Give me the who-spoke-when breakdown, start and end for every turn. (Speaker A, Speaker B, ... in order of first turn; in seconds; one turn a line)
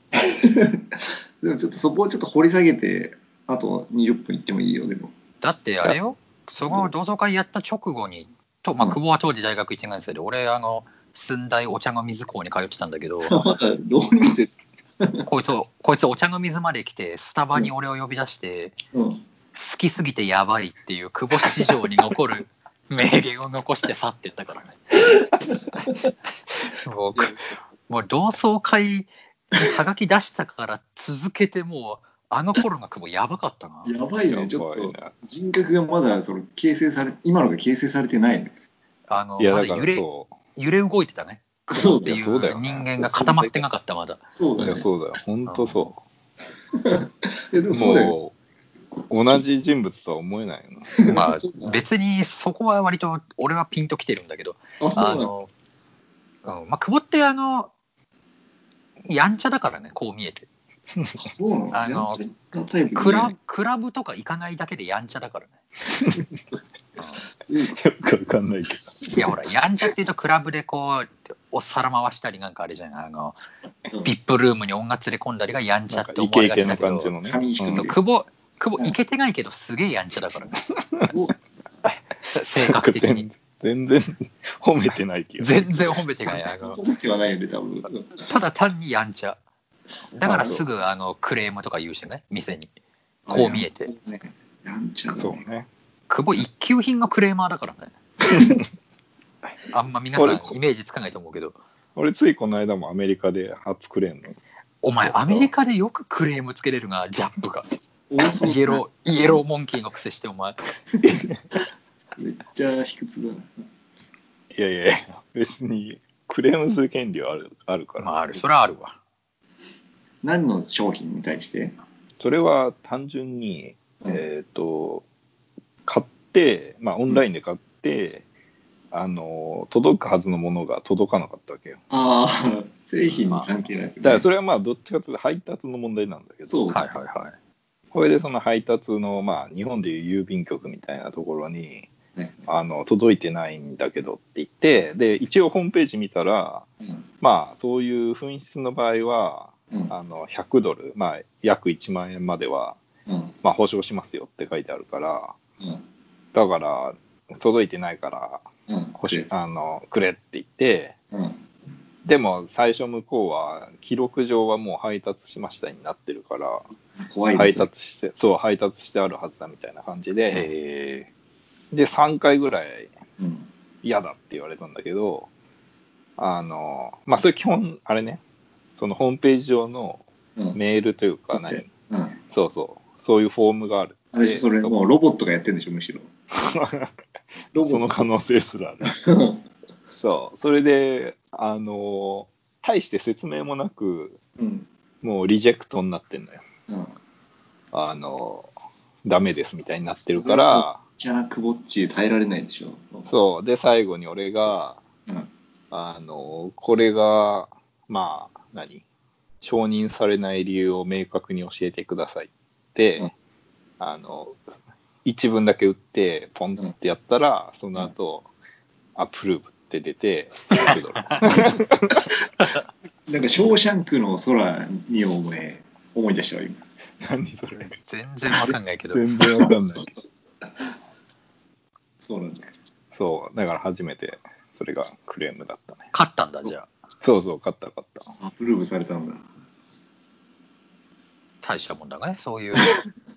Speaker A: 0.1-5.1
Speaker B: 5.4-13.4
Speaker A: 13.3-15.3
Speaker B: 15.3-18.8
Speaker A: 18.9-19.2
Speaker B: 19.5-24.9
Speaker A: 25.5-25.9
Speaker B: 26.6-33.9
Speaker A: 27.2-27.4
Speaker A: 33.9-38.5
Speaker C: 34.3-35.1
Speaker B: 39.1-44.2
Speaker C: 39.4-40.4
Speaker A: 41.7-42.2
Speaker C: 42.0-42.9
Speaker A: 43.0-43.6
Speaker A: 44.4-44.9
Speaker C: 44.6-46.0
Speaker B: 45.5-45.8
Speaker A: 46.7-48.1
Speaker C: 47.7-48.3
Speaker C: 49.1-51.1
Speaker A: 51.0-51.8
Speaker B: 51.1-55.5
Speaker A: 54.8-55.3
Speaker B: 56.4-57.7
Speaker B: 59.1-60.5
Speaker A: 61.2-63.4
Speaker B: 61.7-62.2
Speaker B: 63.0-65.6
Speaker B: 67.0-67.2
Speaker A: 67.5-67.8
Speaker C: 67.7-69.3
Speaker B: 69.2-73.4
Speaker B: 74.0-77.1
Speaker C: 75.9-77.9
Speaker A: 77.2-78.0
Speaker B: 77.7-80.6
Speaker A: 81.1-81.4
Speaker B: 81.8-83.3
Speaker C: 82.6-86.0
Speaker B: 85.4-86.8
Speaker A: 86.3-88.3
Speaker B: 88.2-89.4
Speaker B: 90.1-92.7
Speaker C: 90.3-90.6
Speaker A: 93.3-95.4
Speaker B: 93.3-93.9
Speaker C: 95.1-95.7
Speaker B: 96.1-98.0
Speaker B: 99.7-101.6
Speaker C: 100.2-100.6
Speaker C: 102.0-104.4
Speaker B: 104.8-107.7
Speaker C: 105.0-105.5
Speaker A: 108.1-108.8
Speaker B: 108.2-110.6
Speaker C: 111.0-111.4
Speaker A: 112.2-113.6
Speaker C: 114.5-118.4
Speaker B: 118.0-119.0
Speaker A: 120.2-121.8
Speaker C: 122.2-125.1
Speaker C: 125.9-128.2
Speaker C: 128.9-131.8
Speaker A: 131.9-134.3
Speaker C: 134.0-136.6
Speaker A: 136.5-136.9
Speaker B: 136.7-137.3
Speaker C: 137.9-141.9
Speaker A: 142.2-142.5
Speaker C: 142.5-146.7
Speaker C: 147.2-152.8
Speaker A: 153.1-153.3
Speaker C: 153.4-155.4
Speaker C: 156.3-158.5
Speaker A: 158.7-159.3
Speaker C: 159.0-160.9
Speaker A: 161.1-161.4
Speaker C: 162.1-166.7
Speaker A: 167.0-167.7
Speaker C: 167.3-170.5
Speaker B: 170.3-171.1
Speaker C: 171.7-172.9
Speaker A: 173.2-173.5
Speaker C: 173.8-175.3
Speaker C: 176.2-178.2
Speaker C: 178.8-181.7
Speaker A: 181.3-182.2
Speaker C: 182.3-184.8
Speaker A: 184.1-186.1
Speaker C: 186.3-186.9
Speaker A: 187.5-187.9
Speaker C: 187.7-188.9
Speaker A: 188.8-189.4
Speaker C: 189.9-194.2
Speaker A: 194.4-194.7
Speaker C: 195.0-196.4
Speaker A: 196.7-196.9
Speaker C: 197.7-198.5
Speaker C: 199.0-200.8
Speaker A: 200.2-203.1
Speaker C: 203.1-204.8
Speaker C: 205.7-208.8
Speaker C: 209.4-213.1
Speaker C: 213.8-214.4
Speaker C: 215.1-218.3
Speaker C: 219.0-222.1
Speaker B: 220.7-221.3
Speaker A: 223.1-226.6
Speaker C: 227.0-227.8
Speaker B: 227.8-229.0
Speaker C: 228.9-229.9
Speaker A: 229.3-229.9
Speaker A: 232.0-232.5
Speaker C: 232.9-235.9
Speaker B: 235.9-236.7
Speaker C: 237.0-238.2
Speaker A: 238.2-239.2
Speaker B: 241.4-242.8